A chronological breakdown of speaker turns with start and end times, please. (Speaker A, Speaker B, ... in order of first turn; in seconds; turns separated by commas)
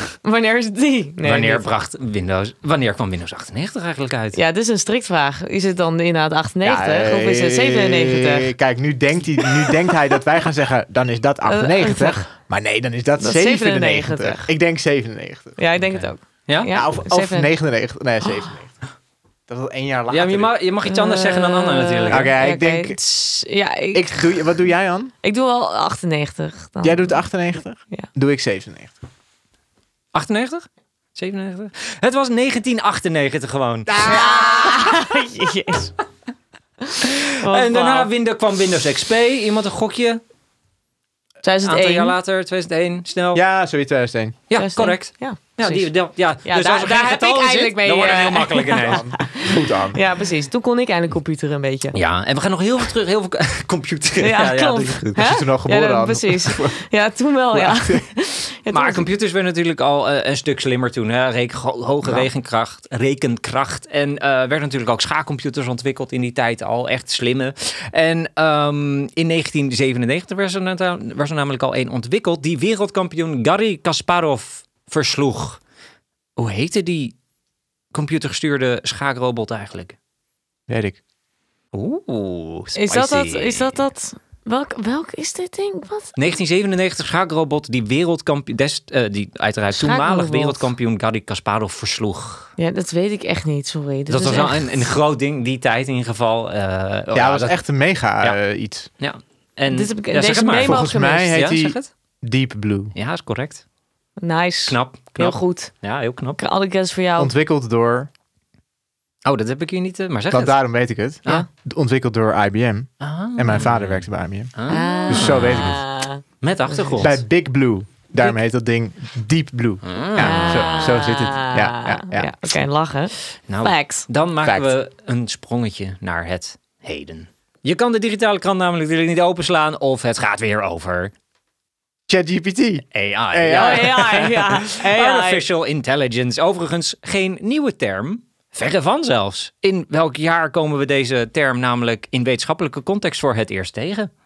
Speaker A: 0.2-1.7, Speaker B: 1.2-4.4, Speaker A: 4.3-8.5, Speaker C: 6.6-15.6, Speaker A: 9.4-9.8, Speaker A: 11.5-12.3, Speaker A: 13.2-14.5, Speaker A: 15.6-17.5, Speaker B: 15.8-16.7, Speaker C: 16.7-18.8, Speaker A: 18.2-18.5, Speaker C: 19.5-20.5, Speaker B: 20.1-22.4, Speaker A: 20.9-24.6, Speaker C: 22.1-23.0, Speaker C: 23.9-25.1, Speaker A: 25.2-27.3, Speaker C: 26.8-28.9, Speaker B: 30.1-34.2, Speaker C: 33.9-34.9, Speaker A: 34.0-35.9, Speaker A: 36.9-38.1, Speaker B: 37.0-40.2, Speaker A: 41.4-42.2, Speaker B: 41.6-43.4, Speaker C: 43.3-44.4, Speaker B: 44.5-49.0, Speaker A: 44.6-45.9, Speaker A: 46.4-52.0, Speaker C: 48.8-50.0, Speaker B: 51.9-55.3, Speaker A: 54.2-59.0, Speaker C: 55.2-56.8, Speaker C: 57.5-58.1, Speaker B: 58.7-75.6, Speaker B: 76.4-77.2, Speaker B: 77.9-80.0, Speaker C: 80.7-81.0, Speaker B: 81.7-83.8, Speaker A: 82.8-86.2, Speaker B: 86.2-92.5, Speaker A: 89.7-90.7, Speaker A: 92.6-94.9, Speaker B: 94.1-97.6, Speaker C: 97.1-98.9, Speaker B: 99.0-101.9, Speaker A: 99.7-101.4, Speaker C: 100.6-102.9, Speaker B: 102.9-103.6, Speaker A: 104.2-105.8, Speaker B: 104.7-106.4, Speaker A: 106.4-107.3, Speaker C: 107.2-108.1, Speaker B: 109.2-110.6, Speaker C: 110.3-115.8, Speaker B: 113.0-115.8, Speaker A: 114.7-117.0, Speaker B: 116.4-117.2, Speaker C: 117.0-122.6, Speaker B: 119.8-120.9, Speaker A: 120.2-124.1, Speaker B: 123.5-131.1, Speaker C: 124.5-124.7, Speaker C: 132.1-134.1, Speaker B: 132.9-144.1, Speaker A: 133.5-135.4